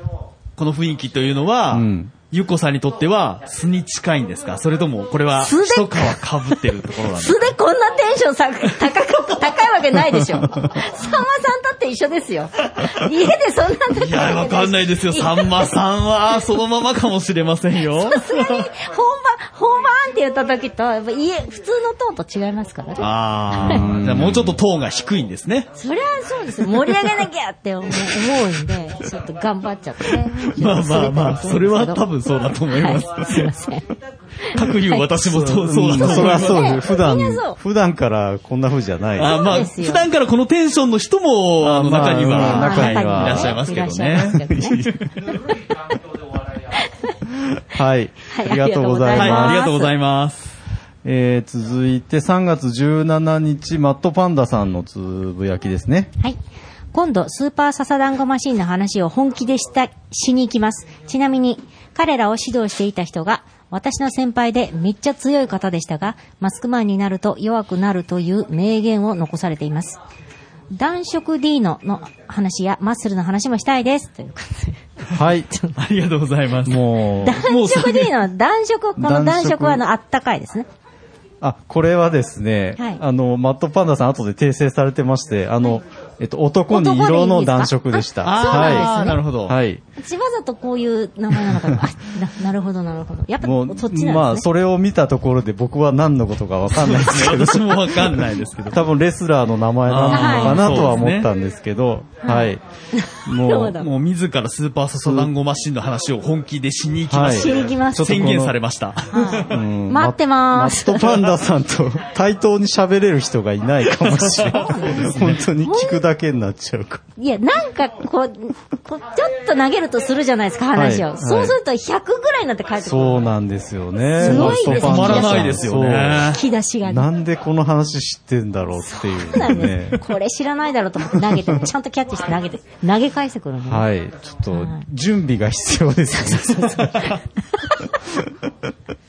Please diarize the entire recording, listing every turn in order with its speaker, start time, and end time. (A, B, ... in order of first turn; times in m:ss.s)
0:00.6-0:07.5 A
0:01.7-0:02.1 B
0:05.4-0:15.7 C
0:13.9-0:18.6 A
0:17.9-0:23.8 C
0:23.0-0:25.7 A
0:23.5-0:24.6 B
0:25.7-0:32.0 C
0:30.4-0:33.5 A
0:32.7-0:33.8 C
0:34.4-0:37.6 C
0:34.5-0:36.8 A
0:35.5-0:39.4 B
0:39.2-0:45.3 A
0:39.2-0:40.0 C
0:41.6-0:43.6 B
0:42.3-0:44.8 C
0:44.1-0:44.9 B
0:46.7-0:47.1 C
0:47.7-0:49.7 B
0:48.3-0:49.9 C
0:49.1-0:50.5 A
0:51.0-0:56.1 B
0:56.9-1:10.0 C
1:10.7-1:15.8 C
1:15.1-1:15.5 B
1:15.8-1:16.9 A
1:16.6-1:17.5 B
1:17.2-1:20.7 C
1:17.4-1:18.2 A
1:19.0-1:19.8 B
1:21.4-1:29.8 B
1:26.7-1:29.2 C
1:28.2-1:29.6 A
1:30.0-1:34.4 C
1:33.4-1:42.6 B
1:36.8-1:38.9 A
1:39.9-1:41.3 A
1:40.1-1:41.1 C
1:42.2-1:43.9 C
1:43.2-1:43.8 B
1:43.7-1:49.5 A
1:45.0-1:45.3 B
1:47.1-1:48.6 B
1:47.2-1:48.3 C
1:49.1-1:51.2 C
1:49.4-1:57.0 B
1:54.0-1:54.5 A
1:54.4-1:56.0 C
1:57.2-2:03.3 C
2:00.7-2:01.6 B
2:02.8-2:06.3 B
2:04.1-2:05.7 C
2:04.2-2:06.4 A
2:06.3-2:07.1 C
2:06.8-2:10.0 B
2:08.7-2:13.9 C
2:11.2-2:11.6 B
2:13.6-2:17.1 B
2:14.5-2:14.8 C
2:16.1-2:17.9 C
2:18.1-2:18.4 B